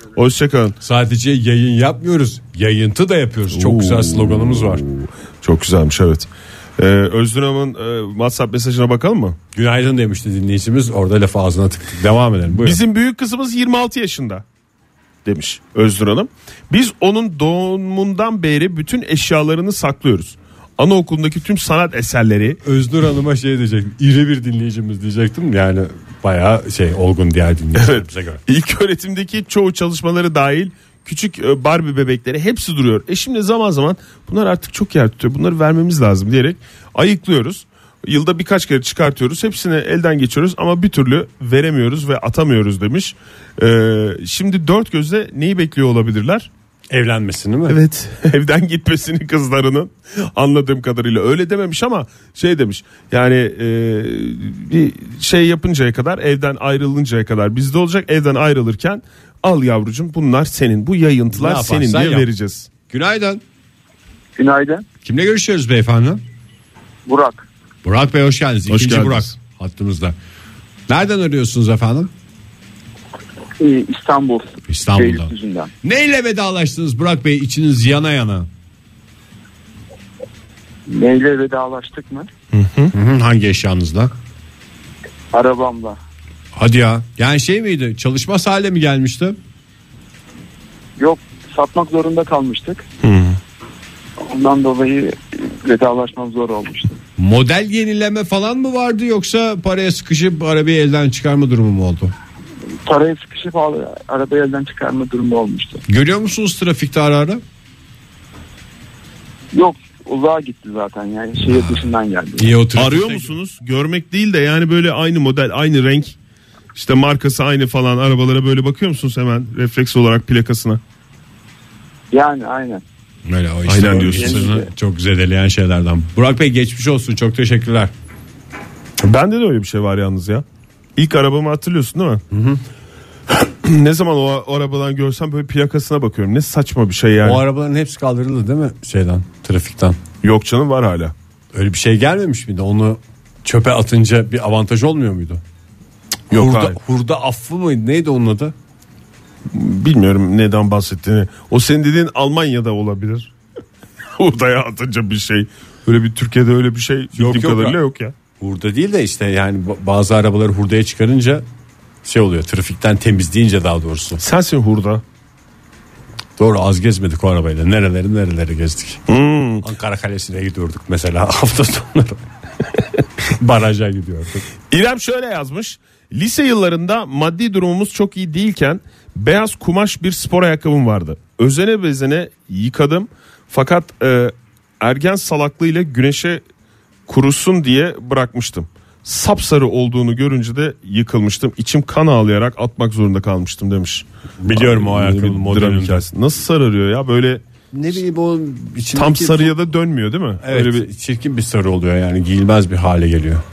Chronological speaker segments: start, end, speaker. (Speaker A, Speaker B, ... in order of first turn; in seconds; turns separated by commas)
Speaker A: 0.1-0.8, Speaker B: 0.8-4.8, Speaker A: 3.5-9.4, Speaker B: 9.5-12.8, Speaker A: 12.6-14.4, Speaker A: 15.2-22.6, Speaker B: 22.6-28.4, Speaker A: 27.7-46.5, Speaker B: 46.9-47.8, Speaker A: 47.7-62.7, Speaker B: 61.3-62.3, Speaker B: 62.9-63.4, Speaker C: 64.4-64.8, Speaker B: 65.0-66.2, Speaker C: 67.1-67.5, Speaker B: 67.8-70.1, Speaker A: 68.7-69.3, Speaker B: 70.9-72.1, Speaker C: 73.6-75.7, Speaker B: 74.7-75.3, Speaker B: 75.8-78.5, Speaker C: 80.9-82.3, Speaker A: 82.5-82.9, Speaker B: 82.9-84.1, Speaker C: 85.3-86.0, Speaker B: 86.5-89.4, Speaker C: 91.0-92.8, Speaker A: 93.0-93.4, Speaker C: 94.2-97.0, Speaker B: 97.2-102.1, Speaker C: 102.8-105.8, Speaker B: 105.9-107.4, Speaker C: 109.5-112.5, Speaker B: 112.4-113.3, Speaker A: 112.8-116.2, Speaker A: 116.7-120.8, Speaker C: 122.1-122.8, Speaker B: 123.2-127.9, Speaker A: 123.7-124.5, Speaker C: 123.8-124.7, Speaker A: 129.0-130.4, Speaker A: 130.9-132.2, Speaker B: 132.3-132.6, Speaker A: 133.3-137.4, Speaker B: 137.2-140.0, Speaker A: 140.2-141.1, Speaker B: 141.5-145.4, Speaker A: 146.3-146.8, Speaker B: 146.3-148.5, Speaker A: 149.5-153.3, Speaker A: 154.1-158.1, Speaker B: 157.1-157.8, Speaker B: 158.4-161.4, Speaker B: 162.0-164.2, Speaker A: 164.2-165.0, Speaker B: 166.4-169.0, Speaker A: 169.1-169.7, Speaker B: 169.6-172.2, Speaker B: 173.3-174.5, Speaker A: 174.7-186.4, Speaker A: 187.1-197.4, Speaker B: 194.4-196.0, Speaker B: 197.7-199.6, Speaker A: 198.9-200.9, Speaker B: 200.4-203.4